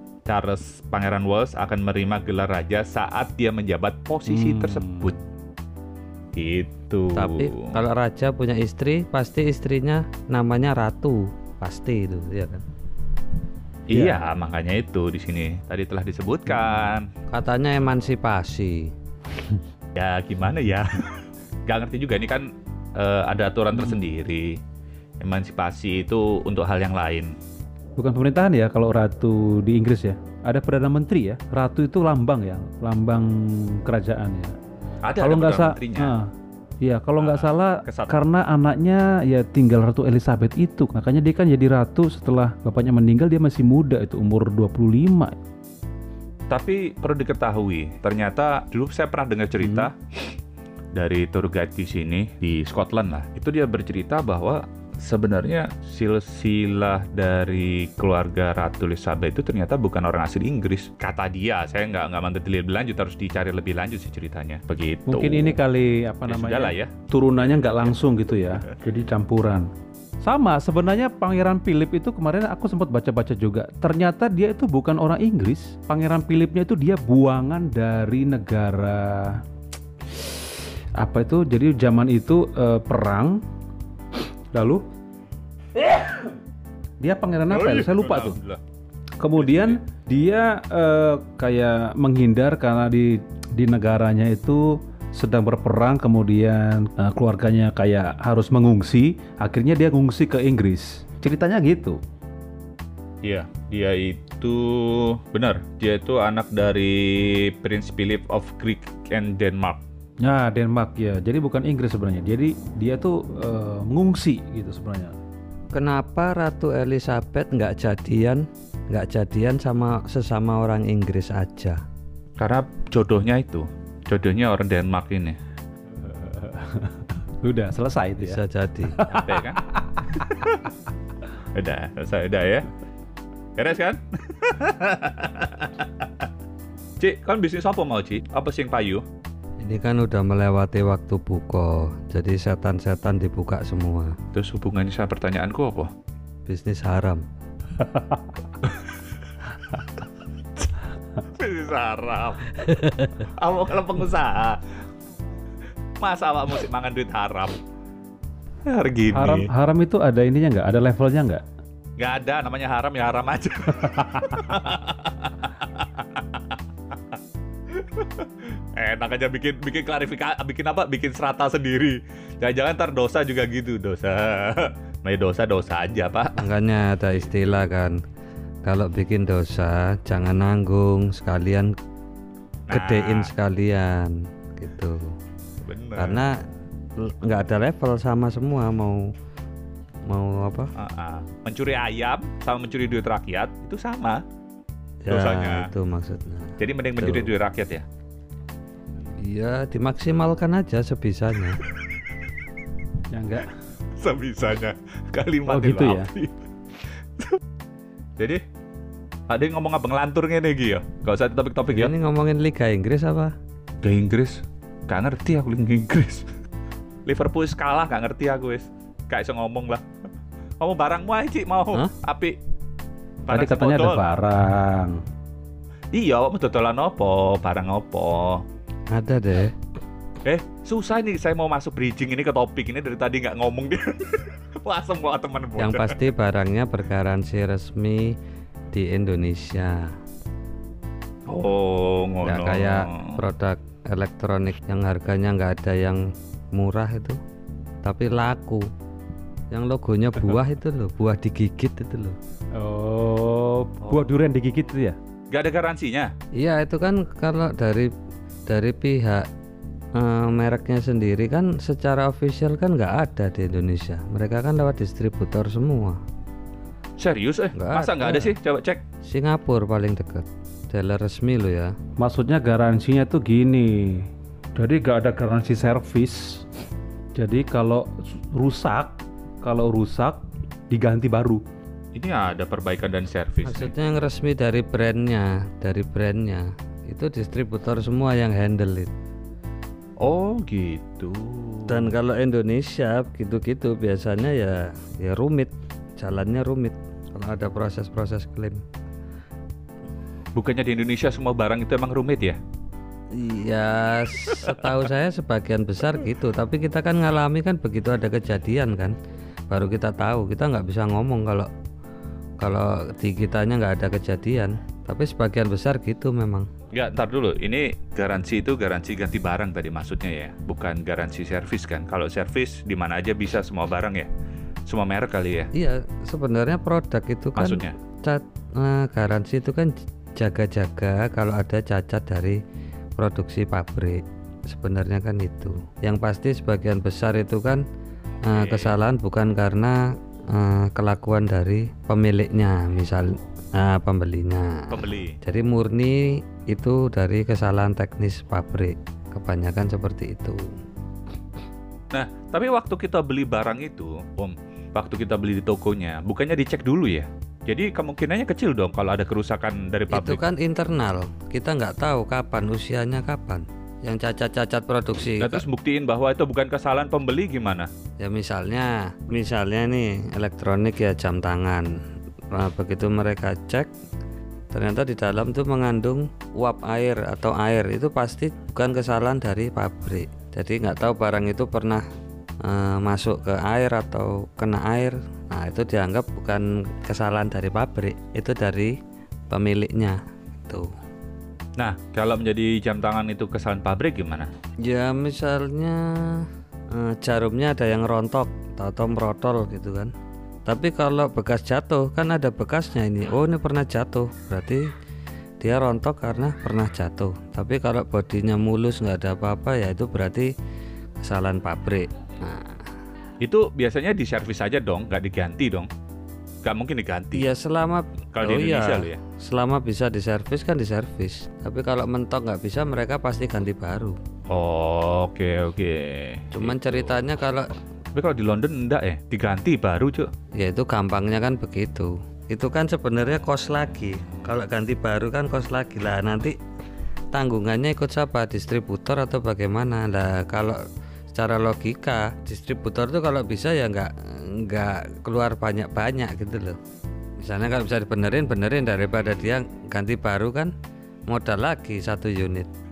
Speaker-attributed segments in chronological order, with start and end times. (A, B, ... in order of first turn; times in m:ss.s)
0:00.3-0:05.2 A
0:04.3-0:05.2 B
0:06.4-0:07.7 A
0:07.2-0:12.6 C
0:13.9-0:17.1 A
0:13.9-0:14.2 B
0:17.3-0:18.9 C
0:20.0-0:24.6 A
0:25.2-0:27.4 A
0:28.0-0:34.6 B
0:35.0-0:36.2 A
0:35.2-0:45.4 B
0:37.2-0:38.2 A
0:46.5-0:50.3 A
0:49.6-0:49.9 B
0:51.0-1:05.6 A
1:05.1-1:09.7 B
1:06.3-1:06.9 A
1:10.2-1:19.4 B
1:20.2-1:23.4 B
1:24.5-1:24.8 B
1:27.0-1:28.4 B
1:27.5-1:28.6 A
1:29.2-1:42.0 B
1:29.4-1:29.8 A
1:43.2-1:49.8 A
1:50.2-1:55.2 B
1:55.7-2:01.8 C
2:02.4-2:05.4 A
2:06.0-2:08.4 B
2:08.2-2:09.0 C
2:09.0-2:10.5 B
2:09.0-2:09.7 A
2:10.2-2:10.6 A
2:11.5-2:12.7 A
2:13.6-2:16.3 A
2:17.0-2:19.0 A
2:19.6-2:24.2 C
2:24.3-2:25.9 A
2:26.5-2:27.2 C
2:31.3-2:34.6 A
2:32.8-2:33.1 C
2:36.0-2:37.6 A
2:38.7-2:39.5 A
2:39.1-2:41.4 B
2:42.0-2:46.6 A
2:47.7-2:56.5 A
2:56.4-2:58.0 C
2:57.2-2:57.5 A
2:58.6-3:01.8 C
3:02.7-3:03.3 A
3:02.7-3:05.2 C
3:05.6-3:06.2 A
3:06.0-3:06.4 C
3:07.0-3:09.1 C
3:10.1-3:10.7 C
3:10.8-3:14.2 A
3:15.0-3:17.3 C
3:15.1-3:15.7 A
3:16.6-3:17.8 A
3:19.2-3:21.6 C
3:23.1-3:23.5 B
3:24.0-3:26.3 A
3:25.5-3:26.1 B
3:29.3-3:31.9 A
3:31.7-3:33.3 C
3:33.8-3:36.3 A
3:37.1-3:39.8 A
3:40.6-3:42.4 A
3:43.3-3:44.0 A
3:43.3-3:45.0 B
3:45.9-3:48.4 A
3:48.9-3:49.6 C
3:50.2-3:56.0 A
3:55.6-3:58.2 C
3:58.7-3:59.9 C
4:01.3-4:03.2 A
4:02.2-4:07.2 C
4:07.8-4:08.7 C
4:09.5-4:12.2 C
4:12.5-4:15.0 B
4:15.3-4:16.1 A
4:16.3-4:17.9 C
4:18.5-4:19.3 C
4:19.9-4:26.0 C
4:27.0-4:28.8 A
4:27.6-4:28.3 C
4:29.0-4:31.8 C
4:32.0-4:36.5 B
4:37.2-4:41.4 B
4:42.0-4:43.7 A
4:43.4-4:48.9 C
4:50.0-4:52.0 A
4:51.7-4:58.6 C
5:00.4-5:02.4 A
5:03.1-5:09.0 C
5:04.3-5:04.8 A
5:09.5-5:11.5 C
5:12.4-5:16.5 C
5:16.7-5:24.1 A
5:24.7-5:25.5 A
5:25.5-5:32.4 C
5:27.4-5:27.8 A
5:33.0-5:37.6 C
5:38.2-5:38.8 A
5:38.3-5:50.5 C
5:44.7-5:45.2 A
5:51.9-6:00.2 A
5:59.9-6:05.4 C
6:05.2-6:07.7 A
6:08.0-6:11.7 C
6:12.3-6:13.7 C
6:14.5-6:21.8 C
6:22.4-6:28.8 C
6:29.3-6:30.7 C
6:31.6-6:34.3 A
6:34.6-6:39.9 C
6:40.5-6:44.7 C
6:45.4-6:50.3 C
6:51.0-6:52.6 C
6:53.2-6:55.7 A
6:56.4-6:57.3 A
6:57.1-7:04.0 C
6:58.1-6:59.0 A
7:04.3-7:07.0 A
7:06.3-7:07.6 C
7:07.9-7:10.1 A
7:10.4-7:16.4 C
7:17.1-7:26.6 C
7:27.2-7:30.5 C
7:31.1-7:32.5 C